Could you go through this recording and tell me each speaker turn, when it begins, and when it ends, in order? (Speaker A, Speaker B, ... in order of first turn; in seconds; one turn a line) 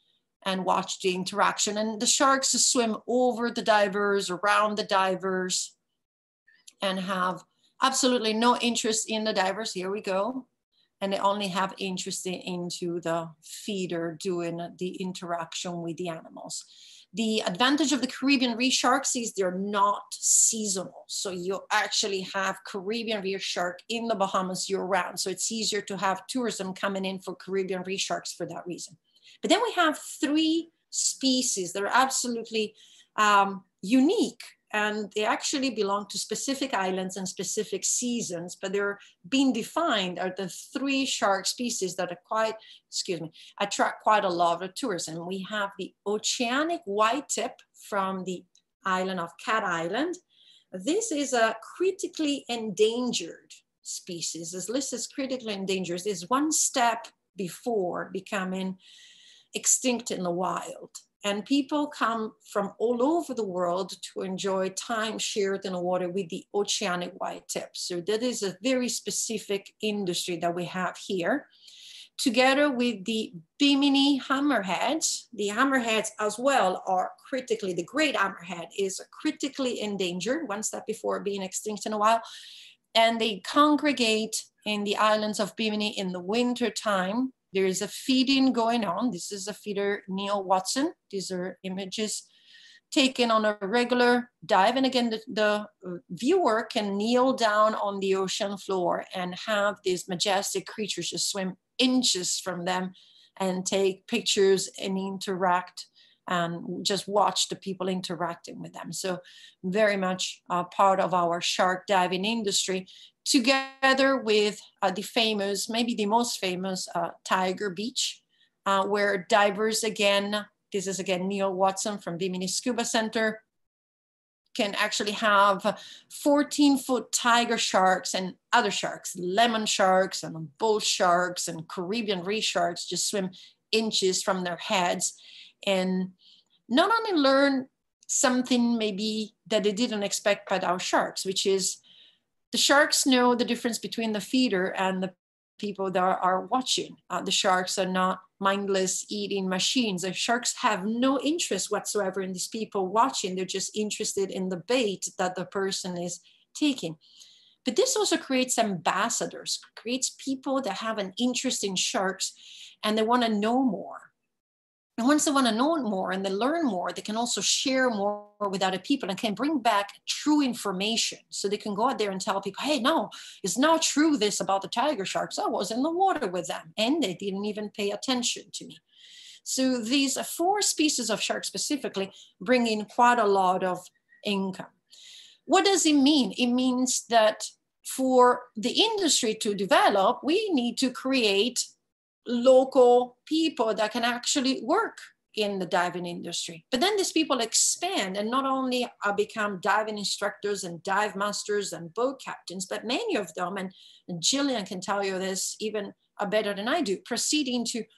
Speaker A: 0.4-5.7
Speaker A: 6.8-10.5
Speaker A: 11.0-50.2
Speaker A: 50.7-58.8
Speaker A: 59.5-71.5
Speaker A: 72.2-82.2
Speaker A: 83.0-92.3
Speaker A: 92.9-123.4
Speaker A: 124.5-136.2
Speaker A: 136.7-141.8
Speaker A: 142.5-157.0
Speaker A: 157.7-164.1
Speaker A: 165.0-178.8
Speaker A: 179.4-184.7
Speaker A: 185.5-191.7
Speaker A: 192.3-207.8